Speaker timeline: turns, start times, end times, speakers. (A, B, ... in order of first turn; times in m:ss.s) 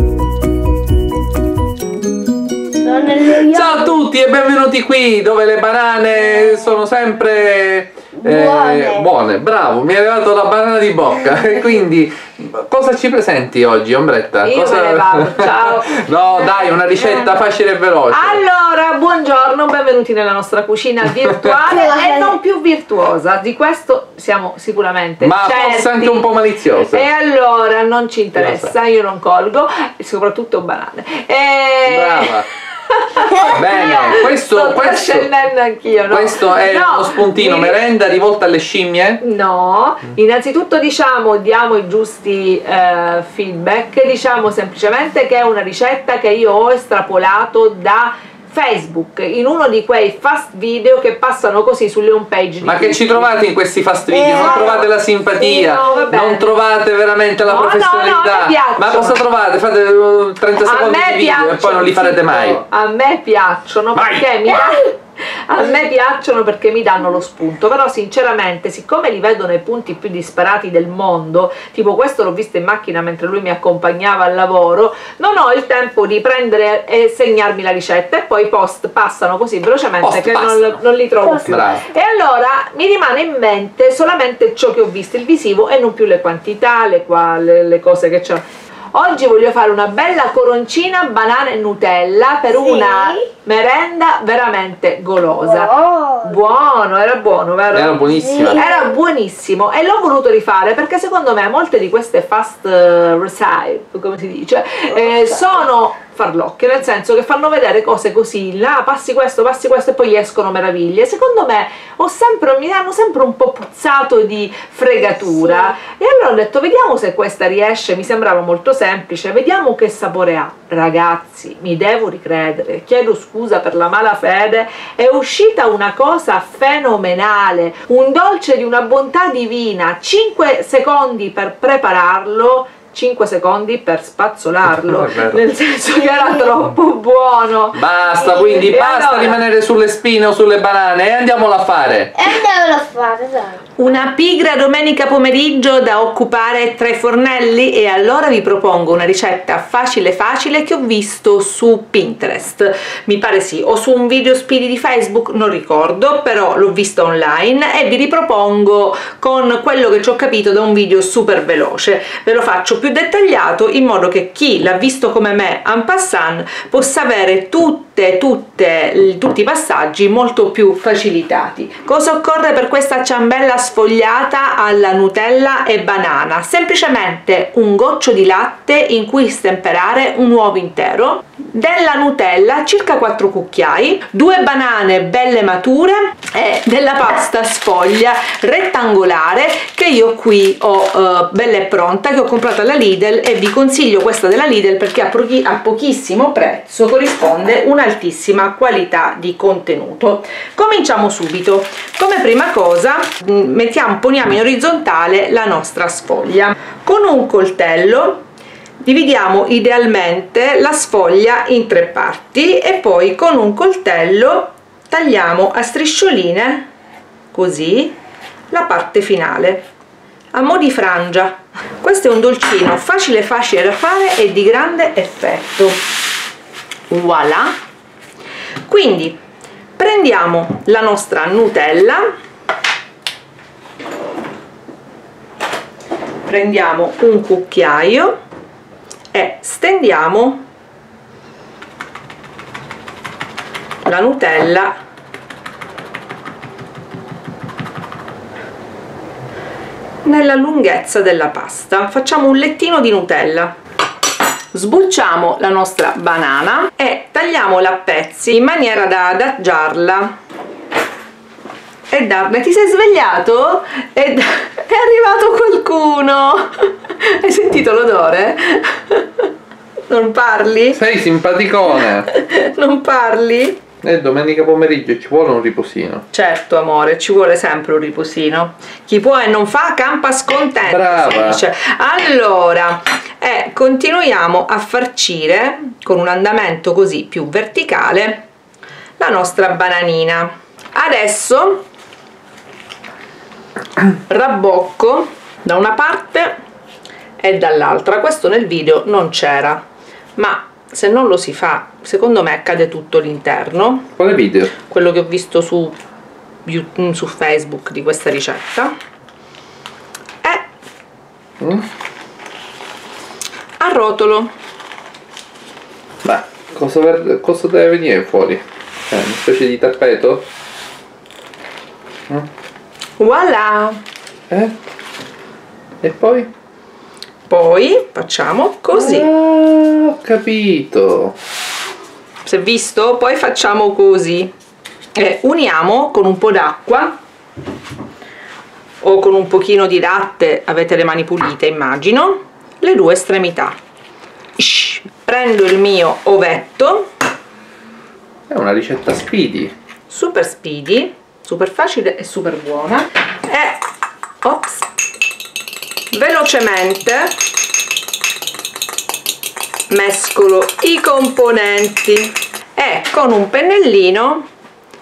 0:02.8-0:03.9 A
0:03.4-0:18.4 B
0:08.2-0:09.0 A
0:14.4-0:16.0 C
0:18.1-0:26.3 C
0:21.6-0:22.3 A
0:25.2-0:27.0 B
0:26.9-0:37.8 C
0:28.4-0:28.7 B
0:31.8-0:32.5 B
0:33.4-0:35.3 B
0:36.1-0:39.2 B
0:39.2-0:53.3 C
0:52.6-1:02.6 B
0:54.1-0:54.5 A
0:54.3-0:54.9 C
0:55.4-0:56.5 C
0:57.4-0:59.2 C
1:00.6-2:17.8 C
1:04.0-1:04.5 B
1:20.0-1:21.8 B
1:32.5-1:33.2 A
1:35.5-1:36.4 A
1:37.7-1:38.6 B
1:38.0-1:38.9 A
2:14.7-2:15.4 B
2:17.7-2:22.1 B
2:18.4-2:19.4 C
2:22.2-2:23.6 A
2:23.8-3:28.2 C
3:28.8-3:36.7 C
3:37.3-3:38.0 C
3:38.5-3:39.6 C
3:40.3-3:45.8 C
3:46.9-3:47.5 C
3:48.6-3:49.2 C
3:49.8-3:52.0 C
3:56.3-3:58.2 C
3:59.1-4:00.4 C
4:03.8-4:04.7 C
4:10.0-4:13.5 C
4:14.5-4:20.1 C
4:21.9-4:29.3 C
4:29.9-4:30.8 C
4:30.7-4:32.1 B
4:32.0-4:33.6 C
4:33.8-4:36.0 B
4:36.1-4:48.2 C
4:40.6-4:41.4 B
4:49.0-4:51.6 C
4:54.0-4:56.3 C
4:57.2-4:59.6 C
5:00.2-5:03.9 C
5:04.0-5:04.5 B
5:04.7-5:05.8 C
5:06.4-5:08.7 C
5:11.4-5:11.6 B
5:13.6-5:14.3 C
5:16.0-5:20.2 B
5:23.0-5:23.8 C
5:24.3-5:24.5 B
5:25.8-5:26.3 B
5:27.3-5:29.1 C
5:28.7-5:31.1 B
5:32.2-5:34.3 C
5:35.0-5:36.9 C
5:38.8-5:43.6 C
5:44.4-5:46.9 C
5:48.3-5:49.5 B
5:49.9-5:53.6 C
5:54.2-5:54.7 C
5:55.9-5:57.1 C
5:59.7-6:04.2 C